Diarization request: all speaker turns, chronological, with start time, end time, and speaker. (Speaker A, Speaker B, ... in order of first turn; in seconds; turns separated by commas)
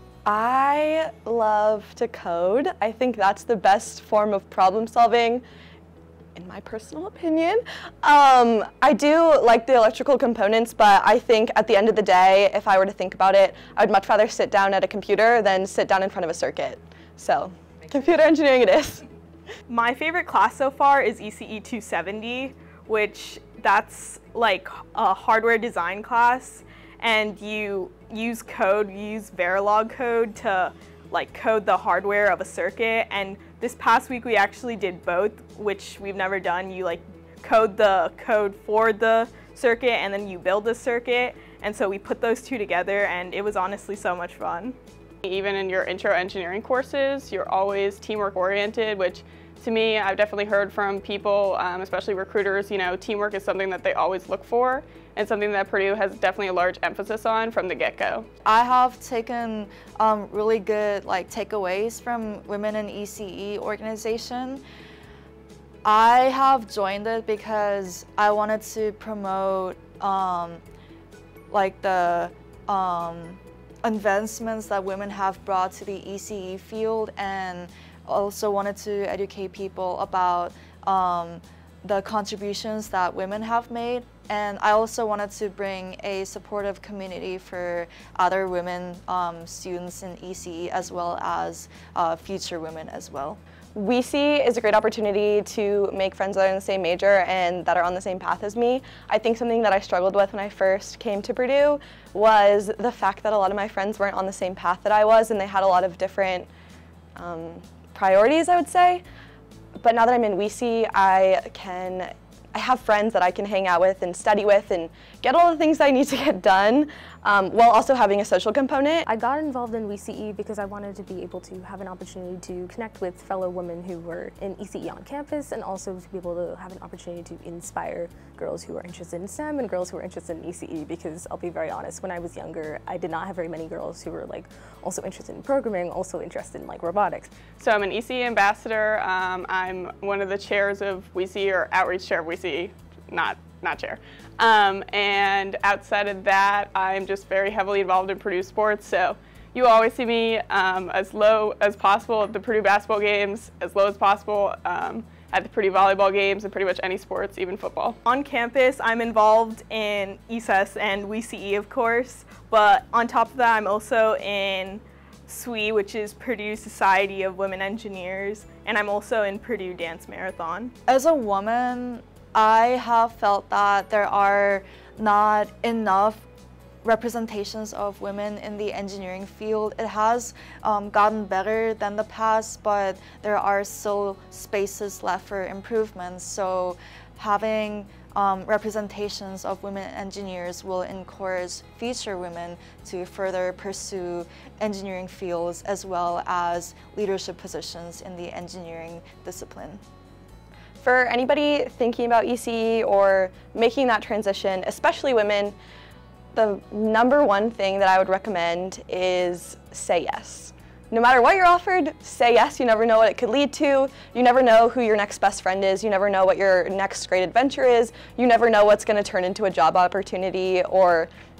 Speaker A: 0.2-5.4, Speaker A: 6.3-19.0, Speaker B: 19.7-44.8, Speaker C: 45.2-58.3, Speaker D: 58.5-64.6, Speaker D: 65.8-70.6, Speaker D: 71.5-93.4, Speaker A: 93.7-106.5, Speaker A: 107.2-109.0, Speaker A: 109.8-119.0, Speaker E: 119.1-137.3, Speaker C: 137.6-158.0, Speaker B: 158.1-170.7, Speaker D: 170.9-176.2, Speaker D: 176.8-199.8, Speaker A: 200.8-205.6, Speaker A: 206.3-221.1